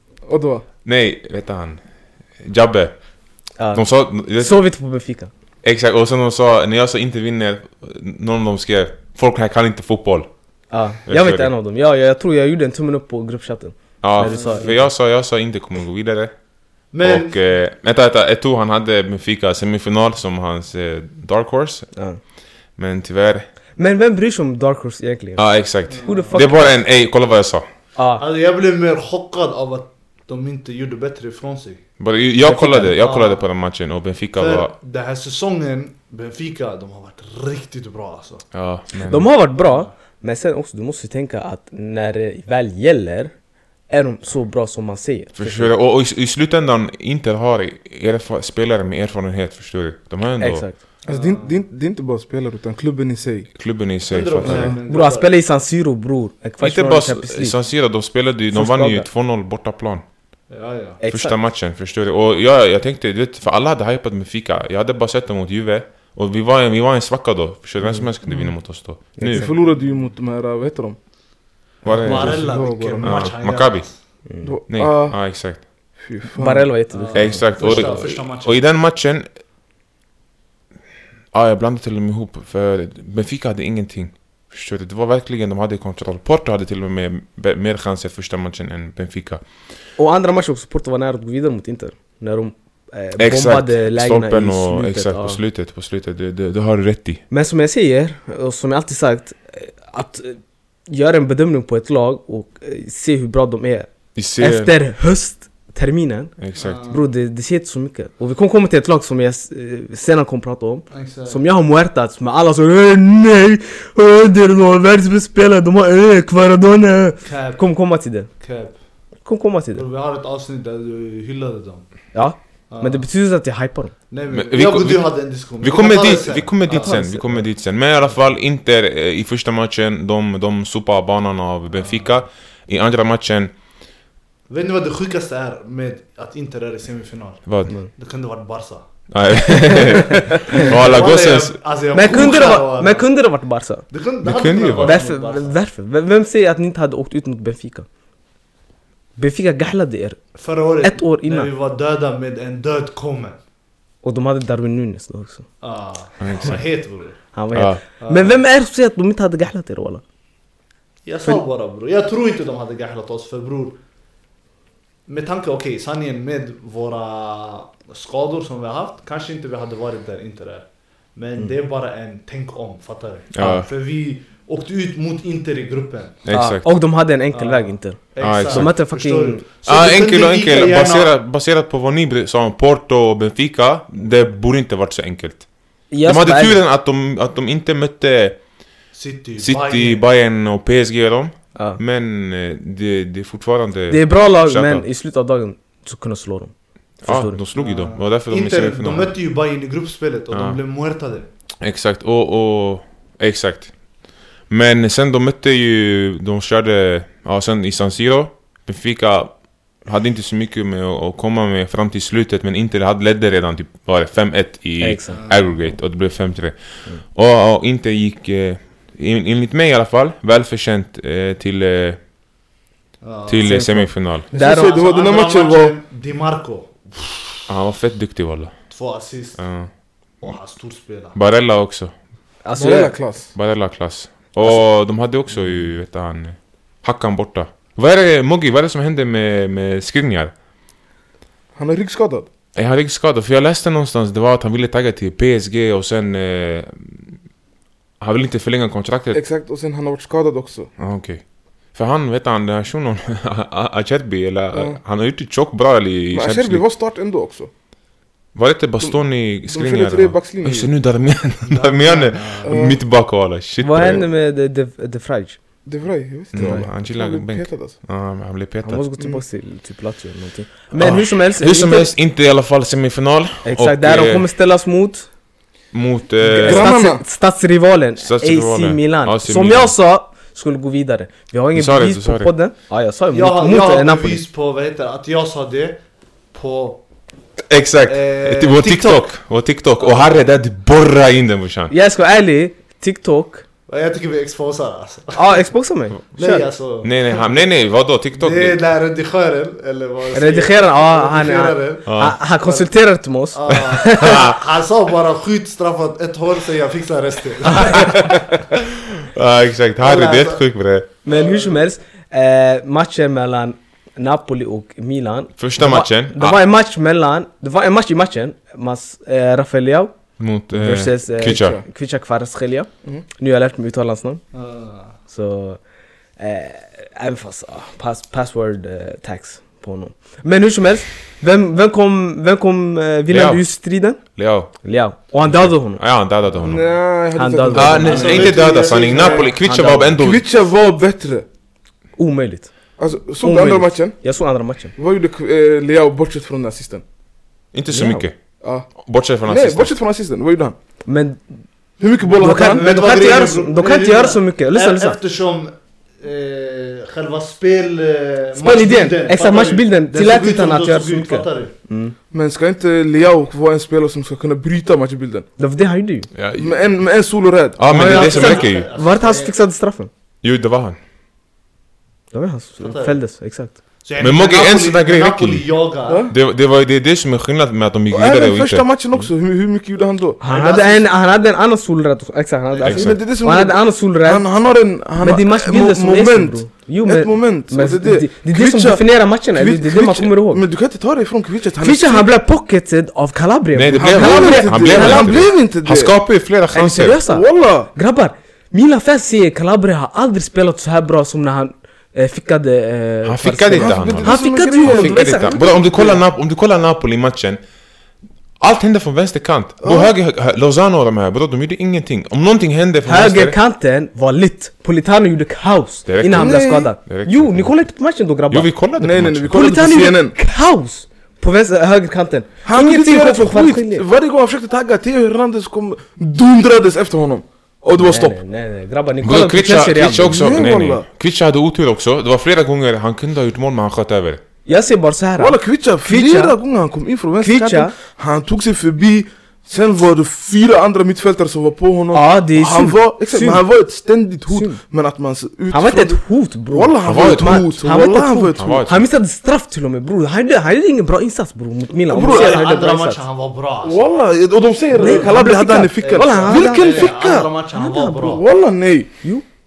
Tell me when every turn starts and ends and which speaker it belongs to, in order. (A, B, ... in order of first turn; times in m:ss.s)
0:00.3-0:00.6 A
0:00.8-0:01.8 B
0:02.4-0:02.9 B
0:03.7-0:04.6 B
0:04.4-0:05.3 C
0:05.6-0:10.3 B
0:10.7-0:14.7 C
0:11.1-0:11.5 B
0:14.0-0:16.3 B
0:14.2-0:14.7 D
0:16.9-0:17.4 D
0:17.0-0:21.9 B
0:22.8-0:23.5 B
0:23.8-0:25.5 C
0:25.4-0:27.6 B
0:25.9-0:26.4 D
0:26.0-0:26.7 C
0:28.0-0:28.2 C
0:28.2-0:31.8 D
0:32.0-0:34.7 B
0:32.4-0:33.0 C
0:33.0-0:33.4 D
0:34.4-0:38.4 D
0:38.5-0:39.3 B
0:39.0-0:43.3 C
0:39.6-0:39.8 D
0:43.9-0:45.7 C
0:45.4-0:50.6 B
0:50.4-0:50.8 C
0:51.0-0:53.5 A
0:51.1-0:51.6 D
0:53.6-0:54.8 B
0:54.1-0:55.3 D
0:54.5-0:54.7 A
0:54.9-0:57.5 C
0:56.6-1:00.0 B
0:58.5-0:59.1 C
1:00.5-1:01.0 D
1:01.0-1:01.4 C
1:01.1-1:09.5 B
1:09.2-1:09.5 C
1:09.3-1:11.0 A
1:11.8-1:12.4 B
1:11.8-1:13.9 D
1:12.0-1:13.2 A
1:13.0-1:13.9 B
1:14.3-1:14.5 C
1:14.4-1:15.2 A
1:14.7-1:15.6 B
1:16.0-1:16.7 A
1:16.3-1:17.9 C
1:16.9-1:18.6 D
1:17.1-1:19.3 B
1:21.3-1:29.4 B
1:30.0-1:35.4 C
1:33.2-1:37.2 B
1:37.3-1:46.3 C
1:44.2-1:44.7 B
1:46.4-1:46.8 B
1:46.6-1:47.1 D
1:46.9-1:58.3 C
1:50.9-1:51.4 D
1:57.2-1:57.6 D
1:58.4-1:58.8 D
1:59.2-1:59.8 C
1:59.7-2:01.8 D
2:02.1-2:03.9 C
2:02.7-2:03.0 D
2:04.1-2:07.0 D
2:04.3-2:13.5 B
2:06.7-2:07.4 C
2:11.7-2:12.1 D
2:14.5-2:18.8 D
2:17.5-2:17.7 B
2:19.1-2:21.6 B
2:19.7-2:20.7 C
2:20.4-2:23.1 D
2:21.9-2:23.8 C
2:23.9-2:25.5 D
2:24.2-2:25.0 B
2:24.8-2:27.9 C
2:29.2-2:30.2 C
2:30.4-2:33.4 D
2:30.8-2:31.5 C
2:34.0-2:35.4 C
2:35.6-2:37.2 D
2:36.2-2:36.6 B
2:37.3-2:40.0 C
2:37.5-2:37.8 B
2:38.0-2:38.4 D
2:41.0-2:43.8 D
2:45.1-2:56.2 D
2:53.3-2:53.7 B
2:56.2-2:56.7 B
2:56.3-2:59.4 C
2:57.3-3:01.1 D
2:58.2-2:58.8 B
2:59.6-3:05.4 B
3:05.9-3:06.6 C
3:06.0-3:08.4 B
3:08.9-3:10.0 D
3:09.4-3:14.8 B
3:13.9-3:16.5 C
3:17.0-3:19.1 B
3:17.0-3:17.4 C
3:17.6-3:21.3 D
3:20.3-3:20.6 B
3:21.6-3:23.7 B
3:24.5-3:36.5 B
3:34.8-3:35.2 C
3:35.1-3:35.4 D
3:37.1-3:42.0 B
3:43.0-3:43.6 D
3:43.3-3:44.3 B
3:43.4-3:44.7 C
3:44.3-3:47.4 D
3:44.3-3:45.8 A
3:47.5-3:48.5 B
3:48.7-3:49.4 D
3:49.4-3:49.7 B
3:50.2-3:51.2 D
3:51.1-3:51.9 B
3:52.4-3:53.0 C
3:52.6-3:53.3 A
3:53.3-4:00.3 B
4:01.6-4:02.3 A
4:02.5-4:07.1 B
4:08.0-4:09.2 B
4:09.1-4:10.7 A
4:10.8-4:11.2 B
4:11.7-4:16.6 B
4:14.5-4:14.8 A
4:16.1-4:17.5 A
4:18.3-4:24.0 B
4:18.8-4:20.7 A
4:21.4-4:22.6 D
4:22.4-4:22.8 A
4:23.6-4:25.4 C
4:25.6-4:27.7 A
4:26.3-4:28.8 B
4:28.6-4:31.9 C
4:30.8-4:34.2 B
4:33.4-4:35.0 C
4:35.7-4:36.7 B
4:36.2-4:37.0 A
4:36.3-4:44.2 C
4:38.0-4:39.7 B
4:41.5-4:42.3 B
4:43.1-4:45.8 D
4:46.3-4:46.8 D
4:47.5-4:51.7 B
4:47.9-4:49.0 D
4:51.7-4:53.4 C
4:53.7-4:55.4 D
4:55.2-4:56.5 C
4:56.2-4:57.4 D
4:56.8-4:58.6 B
4:58.1-5:01.9 D
5:00.1-5:04.2 C
5:01.8-5:02.2 B
5:02.4-5:02.7 D
5:03.3-5:08.4 D
5:03.5-5:04.4 B
5:07.5-5:08.2 C
5:08.5-5:10.9 B
5:09.8-5:10.4 D
5:11.0-5:20.0 C
5:11.1-5:11.6 D
5:15.4-5:16.4 B
5:20.2-5:21.6 B
5:20.5-5:24.2 C
5:21.2-5:21.6 A
5:24.3-5:24.9 D
5:25.1-5:25.6 C
5:26.2-5:34.0 C
5:33.1-5:33.4 B
5:34.1-5:34.5 B
5:34.6-5:35.8 C
5:35.2-5:36.7 B
5:36.4-5:38.4 A
5:37.1-5:38.4 C
5:37.5-5:40.2 B
5:37.8-5:39.3 D
5:38.9-5:40.0 C
5:40.0-5:41.2 A
5:42.0-5:42.5 C
5:42.8-5:43.9 A
5:43.2-5:44.7 C
5:44.8-5:46.8 A
5:47.5-5:48.1 B
5:47.7-5:48.1 C
5:48.4-5:48.7 A
5:48.8-5:49.7 B
5:49.2-5:50.6 A
5:50.9-5:51.2 C
5:51.8-5:52.6 A
5:52.2-5:55.0 C
5:52.2-6:01.5 D
5:58.4-6:01.9 C
6:02.1-6:05.2 A
6:05.4-6:06.1 C
6:06.1-6:06.5 B
6:06.4-6:07.6 A
6:07.6-6:08.7 B
6:07.7-6:09.3 D
6:07.7-6:09.9 C
6:10.2-6:10.8 B
6:12.1-6:13.5 C
6:12.6-6:13.0 D
6:13.8-6:16.1 D
6:14.0-6:15.5 B
6:15.8-6:16.1 A
6:16.1-6:18.6 B
6:17.9-6:20.2 A
6:20.2-6:24.3 C
6:20.2-6:20.9 D
6:22.6-6:32.1 A
6:22.6-6:23.0 B
6:25.0-6:30.4 C
6:31.6-6:35.2 C
6:33.5-6:37.0 B
6:33.8-6:35.9 A
6:36.5-6:45.5 C
6:37.1-6:37.7 A
6:43.0-6:47.4 B
6:43.5-6:46.0 A
6:48.4-6:53.4 B
6:49.6-6:49.9 A
6:52.8-6:58.5 C
6:55.9-6:57.6 B
6:56.1-6:56.7 A
6:58.3-6:59.5 B
6:58.8-7:00.2 A
6:59.3-7:03.8 C
7:02.4-7:08.2 A
7:07.8-7:10.2 C
7:09.0-7:14.2 B
7:09.8-7:10.8 A
7:14.4-7:16.4 C
7:15.2-7:28.6 A
7:17.2-7:17.7 C
7:21.9-7:23.4 C
7:24.3-7:24.6 C
7:25.5-7:33.0 C
7:26.8-7:27.5 B
7:28.4-7:28.9 B
7:31.9-7:32.4 A
7:31.9-7:33.8 D
7:33.6-7:38.9 A
7:34.7-7:35.2 D
7:34.7-7:36.9 C
7:35.8-7:38.2 D
7:37.6-7:38.0 C